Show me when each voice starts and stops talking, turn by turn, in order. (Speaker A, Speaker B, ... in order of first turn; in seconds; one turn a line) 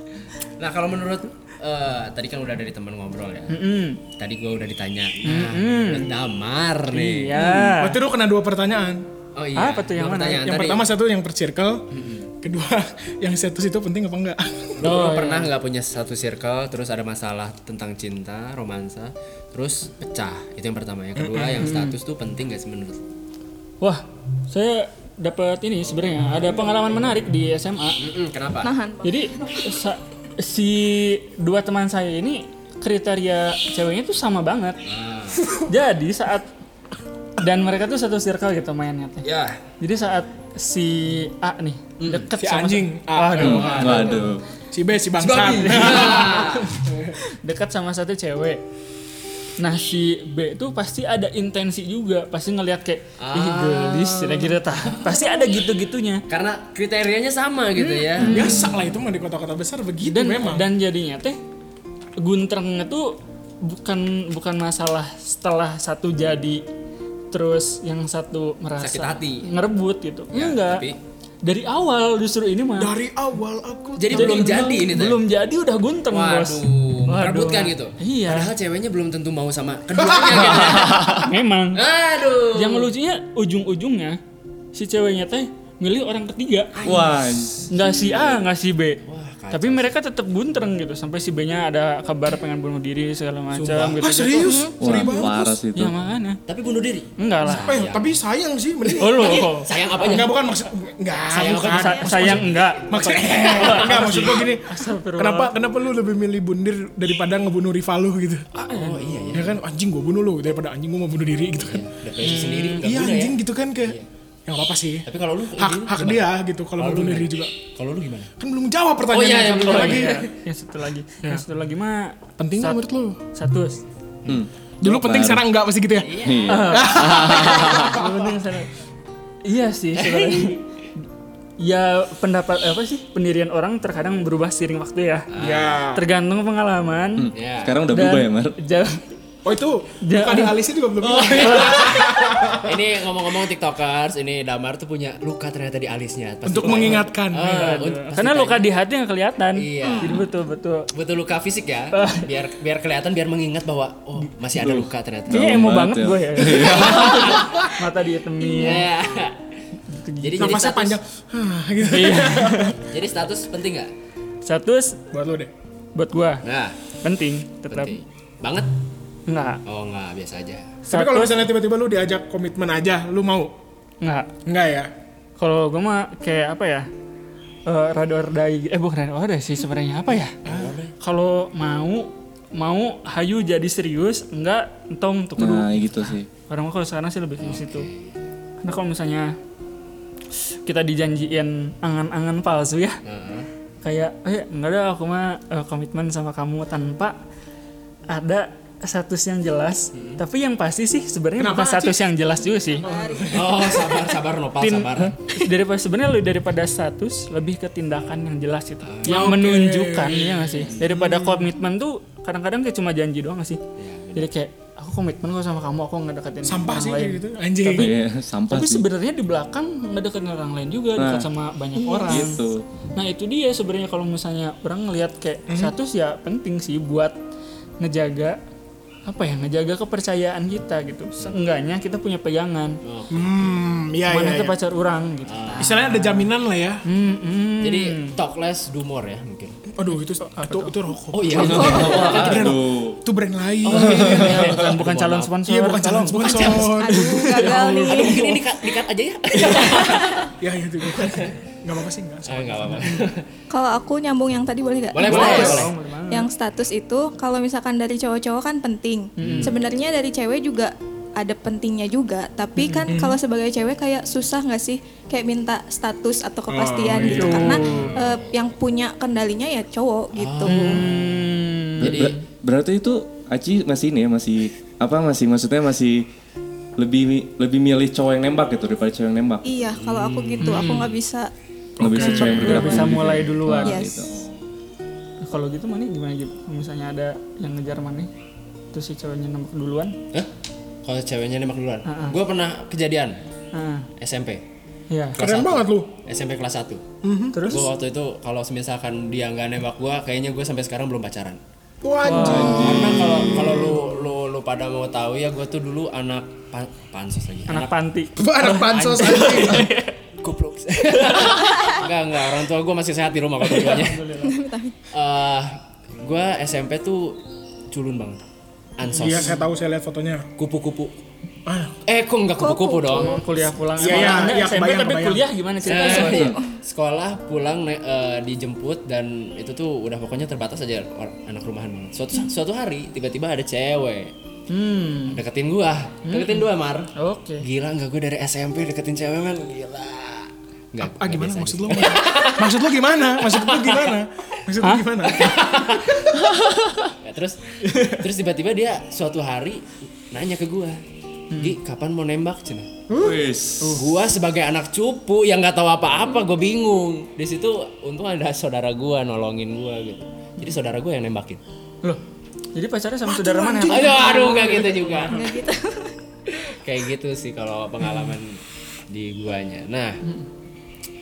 Speaker A: 0.6-3.6
Speaker B: 3.5-4.0
Speaker A: 4.1-7.4
Speaker B: 5.2-6.1
Speaker B: 6.9-8.0
Speaker C: 7.4-9.1
Speaker A: 9.3-10.9
Speaker B: 9.6-10.5
Speaker C: 10.4-11.9
Speaker A: 11.9-12.3
Speaker C: 12.4-14.9
Speaker B: 14.8-15.5
Speaker A: 14.8-23.0
Speaker C: 21.2-21.7
Speaker B: 21.6-22.0
Speaker B: 23.8-28.0
Speaker A: 28.0-28.8
Speaker D: 28.6-29.7
Speaker B: 29.0-34.8
Speaker A: 34.9-35.5
Speaker B: 35.7-36.5
Speaker B: 37.4-39.3
Speaker A: 39.2-39.6
Speaker B: 39.8-44.0
Speaker A: 42.0-42.3
Speaker C: 42.4-47.2
Speaker E: 43.4-44.4
Speaker A: 43.4-44.3
Speaker A: 45.2-46.7
Speaker B: 45.6-48.6
Speaker B: 49.6-56.2
Speaker A: 53.2-55.3
Speaker A: 56.3-58.6
Speaker B: 57.8-58.7
Speaker C: 58.2-60.7
Speaker B: 60.0-61.4
Speaker B: 62.2-66.6
Speaker B: 67.3-70.9
Speaker A: 68.8-69.5
Speaker A: 70.3-71.0
Speaker B: 71.4-72.9
Speaker C: 72.8-74.8
Speaker A: 74.0-75.2
Speaker B: 74.1-78.5
Speaker A: 76.1-81.2
Speaker C: 80.0-81.0
Speaker B: 81.2-81.8
Speaker A: 81.7-82.9
Speaker B: 82.5-84.2
Speaker B: 84.7-86.8
Speaker A: 86.8-88.4
Speaker E: 86.8-87.6
Speaker B: 87.7-96.4
Speaker A: 89.0-89.9
Speaker C: 93.6-95.6
Speaker D: 94.4-95.3
Speaker E: 94.8-95.9
Speaker A: 96.5-98.2
Speaker B: 97.2-97.8
Speaker C: 97.5-108.5
Speaker B: 99.0-99.7
Speaker A: 99.0-100.4
Speaker A: 101.3-102.5
Speaker B: 101.7-105.5
Speaker B: 108.5-109.3
Speaker A: 108.7-109.6
Speaker C: 109.3-111.9
Speaker A: 111.6-114.1
Speaker B: 112.2-112.8
Speaker C: 112.8-117.5
Speaker A: 115.1-118.3
Speaker C: 118.4-120.2
Speaker A: 119.1-120.3
Speaker B: 119.6-122.8
Speaker C: 122.4-123.2
Speaker B: 123.3-123.8
Speaker E: 124.3-125.4
Speaker C: 124.8-128.4
Speaker A: 126.0-126.7
Speaker E: 126.2-128.0
Speaker B: 126.5-127.1
Speaker B: 127.6-128.7
Speaker B: 129.5-131.0
Speaker A: 130.0-130.6
Speaker B: 131.6-135.3
Speaker A: 135.3-135.8
Speaker C: 135.3-136.0
Speaker B: 135.9-137.3
Speaker E: 137.2-138.6
Speaker A: 137.3-137.8
Speaker B: 137.9-139.1
Speaker C: 139.4-142.8
Speaker B: 140.0-140.6
Speaker A: 141.0-148.7
Speaker B: 141.4-141.8
Speaker C: 146.4-147.6
Speaker B: 146.6-150.9
Speaker A: 149.6-150.2
Speaker D: 149.8-150.2
Speaker A: 150.9-155.5
Speaker B: 151.9-152.3
Speaker E: 154.6-157.3
Speaker B: 155.3-158.9
Speaker A: 156.5-157.7
Speaker A: 158.5-159.5
Speaker D: 158.5-158.8
Speaker B: 159.9-160.6
Speaker A: 160.2-161.0
Speaker C: 160.4-162.9
Speaker B: 161.9-162.8
Speaker A: 162.8-163.9
Speaker B: 164.4-165.0
Speaker C: 165.1-165.5
Speaker B: 165.9-166.4
Speaker A: 166.4-166.8
Speaker B: 167.0-168.0
Speaker A: 167.7-168.8
Speaker B: 169.3-169.6
Speaker A: 169.7-170.8
Speaker B: 170.9-171.5
Speaker C: 170.9-173.5
Speaker B: 174.0-174.3
Speaker C: 174.5-174.9
Speaker B: 175.4-176.9
Speaker B: 177.7-180.4
Speaker C: 180.4-180.8
Speaker A: 180.4-180.9
Speaker B: 181.0-187.9
Speaker E: 185.4-186.3
Speaker A: 187.4-188.1
Speaker B: 188.6-189.3
Speaker B: 190.7-193.0
Speaker A: 193.1-193.5
Speaker B: 193.8-197.2
Speaker B: 198.1-202.8
Speaker A: 199.9-200.2
Speaker C: 201.4-202.1
Speaker D: 202.8-203.4
Speaker C: 202.8-204.0
Speaker A: 203.3-205.2
Speaker B: 204.6-213.6
Speaker A: 208.8-209.3
Speaker C: 209.1-211.5
Speaker A: 213.8-214.3
Speaker B: 214.1-218.0
Speaker C: 216.4-217.9
Speaker E: 217.8-218.9
Speaker B: 218.5-222.4
Speaker E: 221.0-221.3
Speaker D: 221.8-222.4
Speaker E: 222.1-222.6
Speaker B: 222.9-227.2
Speaker C: 225.5-225.7
Speaker B: 227.8-228.4
Speaker B: 229.1-232.8
Speaker A: 232.8-233.6
Speaker C: 233.1-234.6
Speaker B: 234.1-236.2
Speaker A: 235.3-235.8
Speaker C: 235.6-236.8
Speaker B: 236.8-238.2
Speaker A: 237.6-239.6
Speaker C: 239.7-244.4
Speaker B: 240.0-240.8
Speaker A: 241.1-242.6
Speaker E: 241.3-243.0
Speaker A: 243.7-245.3
Speaker B: 243.7-248.3
Speaker E: 243.8-244.5
Speaker C: 245.5-248.2
Speaker A: 246.2-246.8
Speaker D: 246.7-248.3
Speaker A: 247.3-250.3
Speaker B: 249.5-250.0
Speaker C: 250.4-253.1
Speaker A: 250.9-251.4
Speaker A: 252.3-253.3
Speaker D: 253.5-270.8
Speaker A: 254.9-255.7
Speaker B: 255.0-256.3
Speaker C: 255.1-255.6
Speaker B: 259.2-259.5
Speaker A: 259.2-259.5
Speaker B: 262.6-262.9
Speaker C: 262.9-263.2
Speaker C: 266.5-267.6
Speaker B: 267.0-267.9
Speaker A: 267.4-268.2
Speaker A: 270.1-272.1
Speaker B: 270.5-272.2
Speaker E: 271.8-276.1
Speaker E: 276.8-279.6
Speaker D: 279.4-281.3
Speaker A: 279.7-280.7
Speaker B: 280.4-280.9
Speaker C: 281.8-282.7
Speaker E: 281.8-284.4
Speaker B: 281.9-283.8
Speaker D: 282.1-282.9
Speaker D: 283.6-284.0
Speaker B: 285.2-288.1
Speaker B: 288.7-290.0
Speaker A: 290.8-293.2
Speaker B: 291.9-292.2
Speaker B: 293.5-293.9
Speaker A: 294.0-294.4
Speaker B: 294.9-295.2
Speaker A: 295.2-296.9
Speaker C: 295.2-295.9
Speaker C: 297.0-297.6
Speaker B: 297.3-297.7
Speaker A: 297.5-301.4
Speaker C: 301.8-303.8
Speaker B: 302.0-302.8
Speaker A: 302.2-307.8
Speaker B: 307.5-309.9
Speaker C: 308.2-309.7
Speaker A: 308.8-309.6
Speaker A: 310.2-314.1
Speaker B: 311.0-311.5
Speaker D: 311.5-311.8
Speaker B: 313.5-314.4
Speaker D: 314.2-314.8
Speaker A: 314.9-317.2
Speaker A: 317.7-318.2
Speaker A: 318.8-319.4
Speaker B: 318.9-319.4
Speaker C: 318.9-320.3
Speaker A: 320.4-321.0
Speaker C: 321.5-321.8
Speaker A: 321.9-324.4
Speaker D: 322.4-323.2
Speaker B: 322.9-326.3
Speaker C: 323.8-325.3
Speaker A: 325.7-334.1
Speaker D: 325.7-326.5
Speaker B: 334.5-335.2
Speaker A: 335.1-343.9
Speaker B: 336.1-337.4
Speaker C: 340.8-345.5
Speaker B: 344.6-345.2
Speaker A: 345.2-346.1
Speaker B: 346.5-346.8
Speaker A: 347.0-350.8
Speaker C: 347.7-348.0
Speaker B: 351.3-351.6
Speaker A: 351.4-352.8
Speaker C: 352.9-353.8
Speaker E: 353.0-353.8
Speaker A: 353.8-361.4
Speaker B: 362.5-365.2
Speaker C: 363.1-364.8
Speaker A: 363.7-365.3
Speaker D: 365.1-365.9
Speaker A: 366.4-370.0